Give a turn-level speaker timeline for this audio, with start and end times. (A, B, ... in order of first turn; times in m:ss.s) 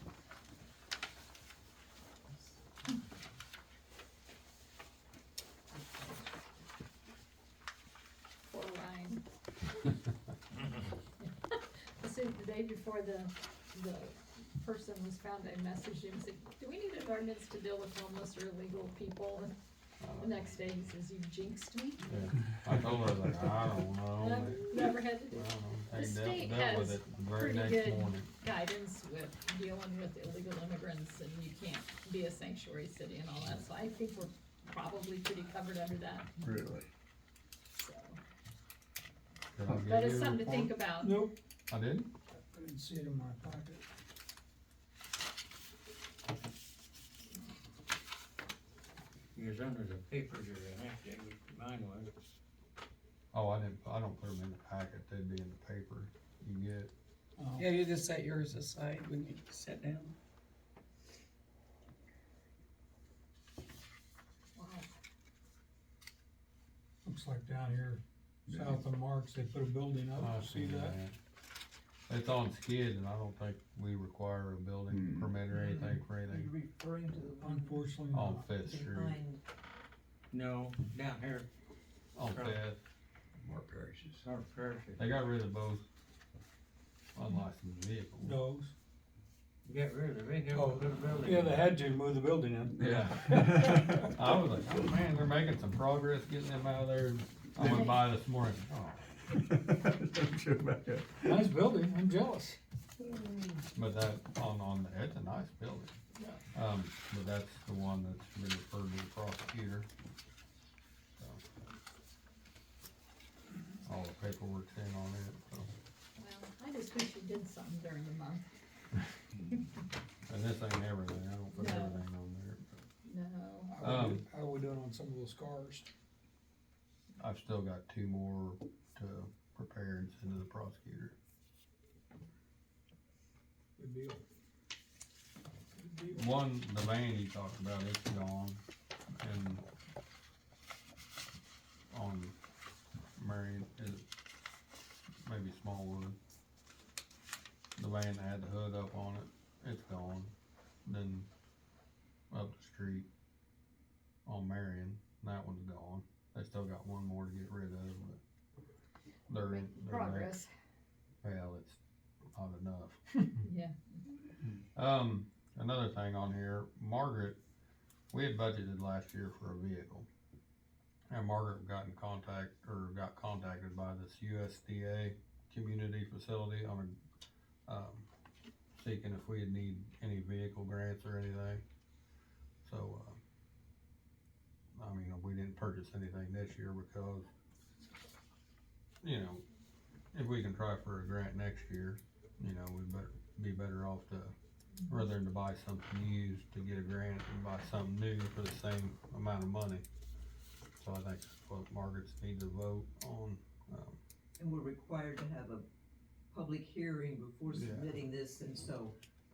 0:08.4-0:09.2 A
0:11.2-0:19.5 A
0:20.0-0:20.4 B
0:20.2-0:22.0 A
0:22.0-0:24.7 B
0:24.2-0:36.3 A
0:25.3-0:28.3 B
0:36.4-0:36.9 C
0:37.7-0:38.2 A
0:39.5-0:40.6 B
0:39.9-0:41.2 A
0:41.0-0:41.3 D
0:41.7-0:42.1 B
0:42.3-0:43.9 D
0:49.3-0:52.1 E
0:53.3-0:56.9 B
0:57.4-0:57.7 D
0:57.6-1:00.1 F
1:04.6-1:05.0 A
1:07.0-1:11.0 D
1:08.5-1:08.8 C
1:10.2-1:11.2 B
1:12.1-1:16.4 B
1:14.9-1:15.4 C
1:15.5-1:17.9 G
1:17.4-1:18.5 D
1:18.1-1:19.2 B
1:18.5-1:19.4 G
1:20.3-1:21.5 E
1:22.2-1:22.8 B
1:22.2-1:22.6 E
1:23.4-1:23.9 C
1:24.1-1:25.1 E
1:25.0-1:25.9 B
1:27.1-1:28.4 B
1:28.2-1:28.7 D
1:29.6-1:31.6 E
1:30.5-1:34.0 D
1:32.8-1:38.7 B
1:32.8-1:34.1 C
1:37.6-1:38.0 A
1:38.7-1:41.4 C
1:41.2-1:42.6 D
1:43.7-1:45.9 B
1:46.5-1:49.9 B
1:51.2-1:51.4 B
1:53.8-1:55.7 B
1:56.2-1:58.5 A
2:00.3-2:02.8 B
2:01.5-2:02.0 A
2:03.0-2:03.7 A
2:03.7-2:05.9 D
2:03.8-2:04.2 B
2:07.2-2:11.2 B
2:13.8-2:14.2 D
2:15.7-2:16.3 D
2:16.1-2:18.6 B
2:19.2-2:19.6 B
2:21.9-2:22.3 B
2:23.2-2:24.0 B
2:25.2-2:26.2 B
2:27.8-2:30.3 B
2:30.8-2:31.3 B
2:32.3-2:33.1 B
2:34.2-2:38.2 B
2:39.3-2:40.4 B
2:39.4-2:40.5 A
2:41.2-2:41.8 B
2:42.3-2:43.3 B
2:43.4-2:44.0 A
2:44.7-2:47.4 B
2:48.1-2:50.1 B
2:51.1-2:56.9 B
2:57.7-2:58.1 B
2:58.8-3:01.6 B
3:02.6-3:03.2 B
3:04.8-3:07.3 B
3:09.0-3:09.4 B
3:10.1-3:14.3 B
3:14.9-3:19.8 B
3:20.8-3:24.0 B
3:24.4-3:25.6 G
3:26.3-3:28.9 G
3:27.5-3:27.9 B